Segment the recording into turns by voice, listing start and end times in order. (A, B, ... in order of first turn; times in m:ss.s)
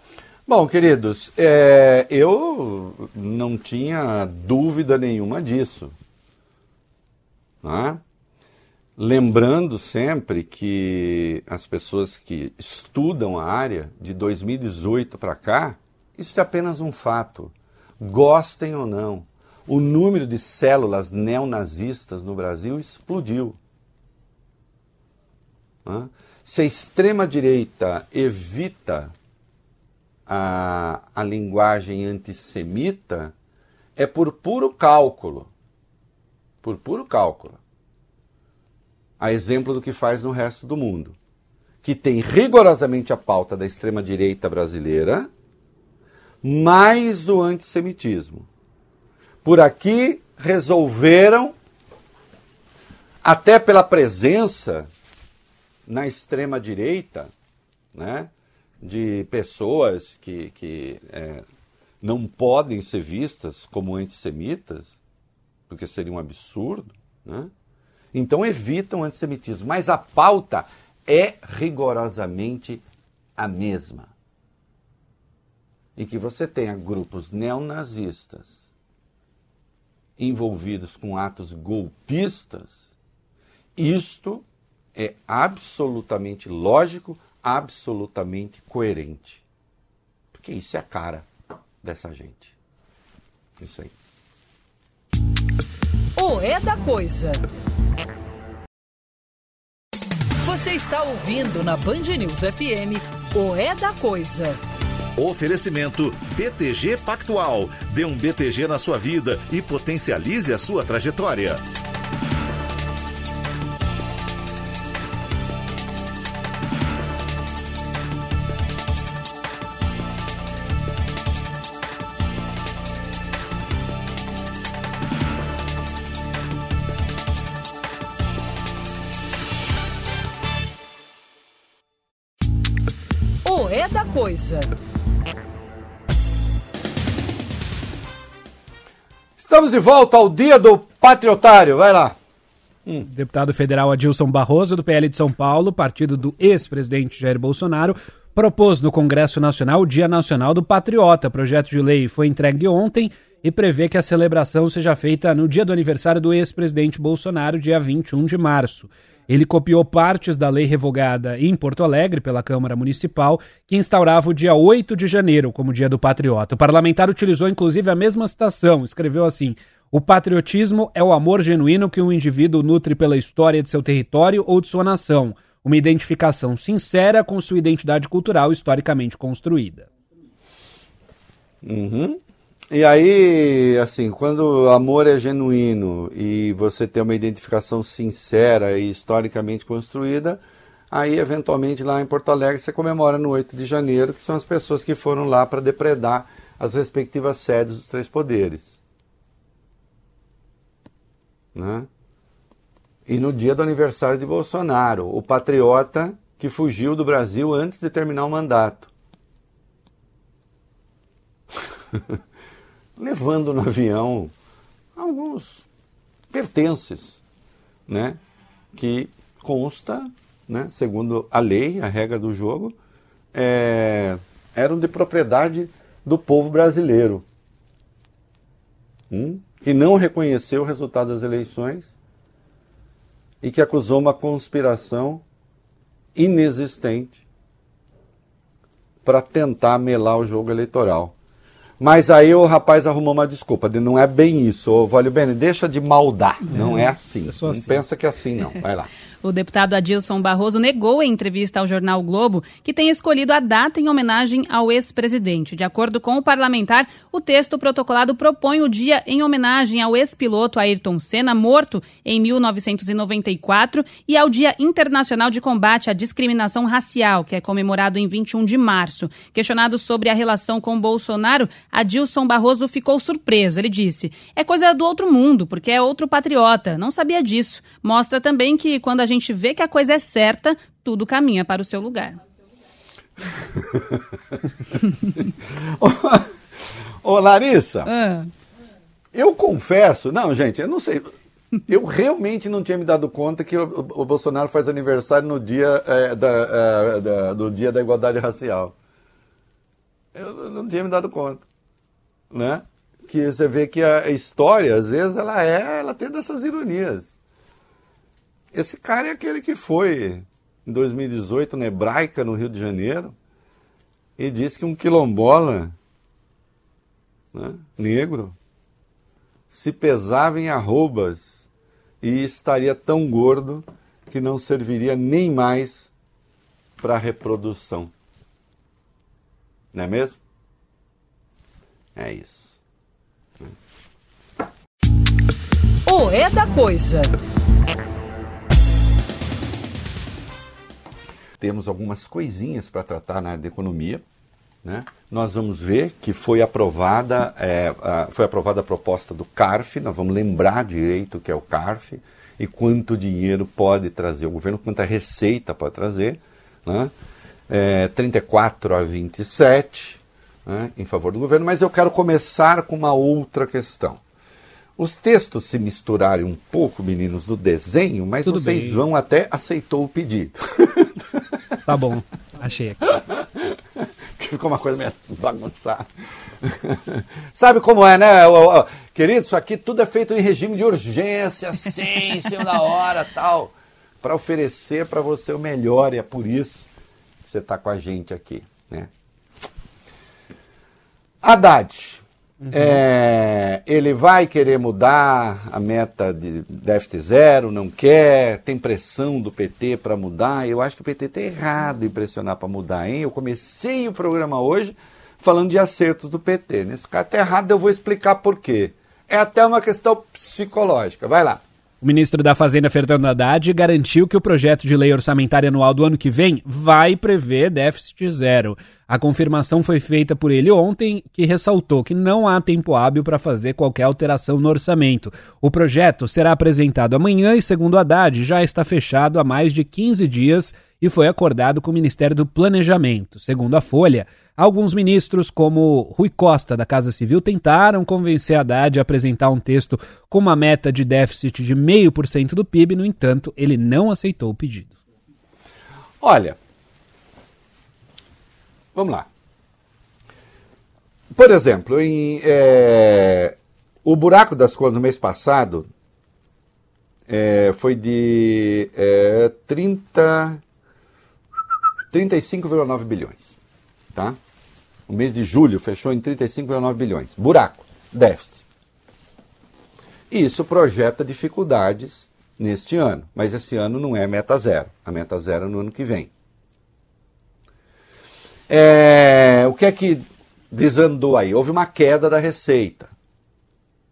0:00.5-0:05.9 A
0:07.6-0:08.0 A
0:09.0-0:23.6 A
0:25.8-0:29.1 A
0:30.3-0:33.3 A
0:34.0-0:35.5 A
0:36.6-0:37.6 A
0:39.2-0:41.1 A
0:41.8-0:45.3 A
0:46.4-0:48.5 A
0:49.4-0:51.5 A
0:53.2-0:54.9 A
0:55.9-0:57.3 A
0:57.9-0:58.3 A
0:58.8-1:01.4 A
1:02.0-1:05.0 A
1:05.7-1:07.5 A
1:08.1-1:12.8 A
1:13.4-1:14.1 A
1:16.0-1:18.7 A
1:20.2-1:22.9 A
1:23.8-1:24.4 A
1:25.0-1:29.4 A
1:30.3-1:31.3 A
1:31.8-1:32.5 A
1:33.6-1:33.9 A
1:36.2-1:37.4 B
1:40.4-1:44.6 B
1:45.2-1:51.6 C
2:13.4-2:14.7 B
2:19.4-2:22.2 A
2:23.1-2:59.9 D
3:01.6-3:02.2 A
3:02.7-3:18.8 A
3:21.5-3:21.9 A
3:23.1-3:28.9 A
3:33.0-3:34.3 A
3:35.0-3:35.6 A
3:36.3-3:37.2 A
3:37.9-3:38.2 A
3:38.7-3:42.7 A
3:43.3-3:47.2 A
3:49.1-3:51.9 A
3:53.4-3:55.2 A
3:56.2-3:57.2 A
3:59.0-4:01.1 A
4:01.8-4:08.9 A
4:06.5-4:07.8 D
4:09.2-4:42.2 E
4:45.6-4:46.3 A
4:47.0-4:47.9 A
4:47.8-4:48.3 E
4:49.1-4:51.1 A
4:51.7-4:58.7 A
5:00.1-5:01.4 A
5:02.3-5:07.1 A
5:08.5-5:13.1 A
5:14.2-5:15.7 A
5:17.3-5:18.3 A
5:19.5-5:21.4 A
5:22.0-5:25.9 A
5:26.8-5:27.9 A
5:29.7-5:30.2 A
5:32.0-5:32.6 A
5:35.8-5:37.1 B
5:41.4-5:44.0 A
5:44.6-5:56.9 A
5:57.5-6:04.0 A
6:04.8-6:11.2 A
6:08.2-6:08.8 D
6:11.6-6:12.8 D
6:12.9-6:13.5 A
6:14.2-6:15.8 A
6:16.4-6:26.6 A
6:27.2-6:28.9 A
6:31.2-6:51.4 A
6:51.8-7:24.8 D
7:26.0-7:26.4 A
7:28.7-7:29.1 A
7:31.1-7:35.7 A
7:37.1-7:40.4 A
7:41.9-7:43.4 A
7:44.9-7:48.4 A
7:50.1-7:56.1 A
7:58.5-8:02.9 A